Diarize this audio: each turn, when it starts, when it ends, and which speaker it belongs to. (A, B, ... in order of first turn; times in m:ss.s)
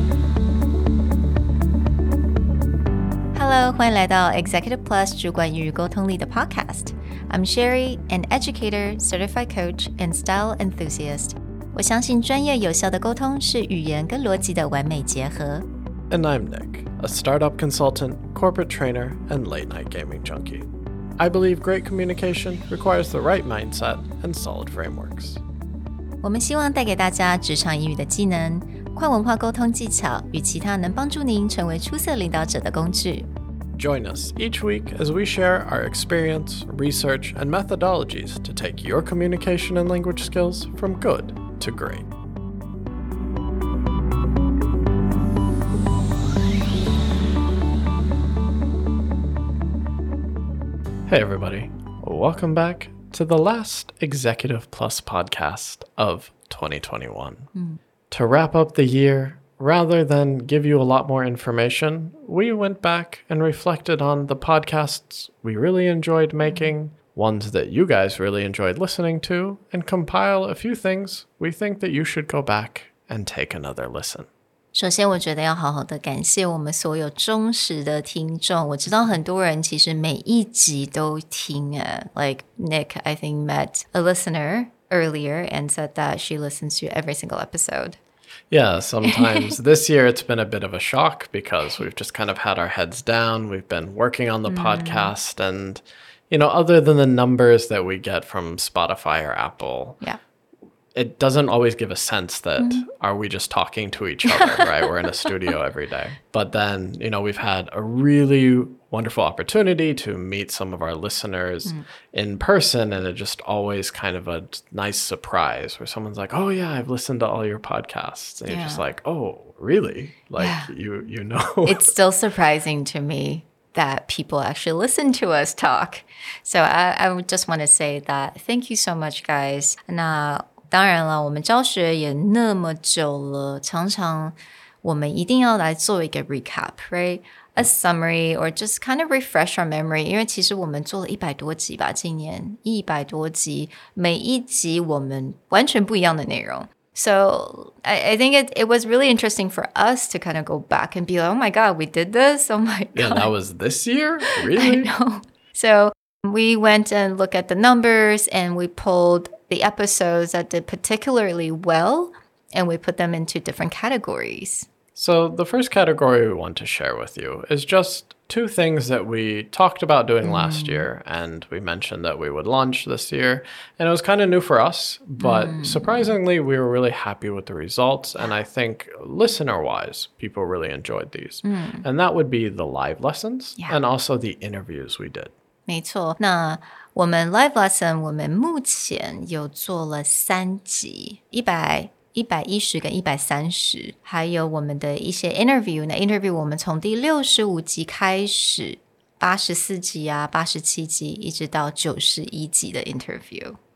0:03.3-0:15.6 A
0:16.1-0:25.4 B
0:26.2-0:33.3 A
0:33.7-0:42.1 B
0:51.1-0:57.5 B
0:57.5-0:57.8 A
0:58.1-1:14.3 B
1:06.4-1:06.7 A
1:14.7-1:28.0 A
1:28.5-1:40.0 B
1:29.1-1:29.5 A
1:34.5-1:35.1 A
1:40.9-2:01.9 B
1:42.6-1:42.8 A
1:44.2-1:45.3 A
1:58.5-1:58.8 A
2:00.4-2:00.7 A
2:01.6-2:33.3 A
2:32.9-2:34.9 B
2:34.5-2:44.7 A
2:44.9-3:05.3 B
2:50.2-2:50.9 A
2:55.2-2:56.1 A
3:01.4-3:01.8 A
3:05.7-3:23.6 A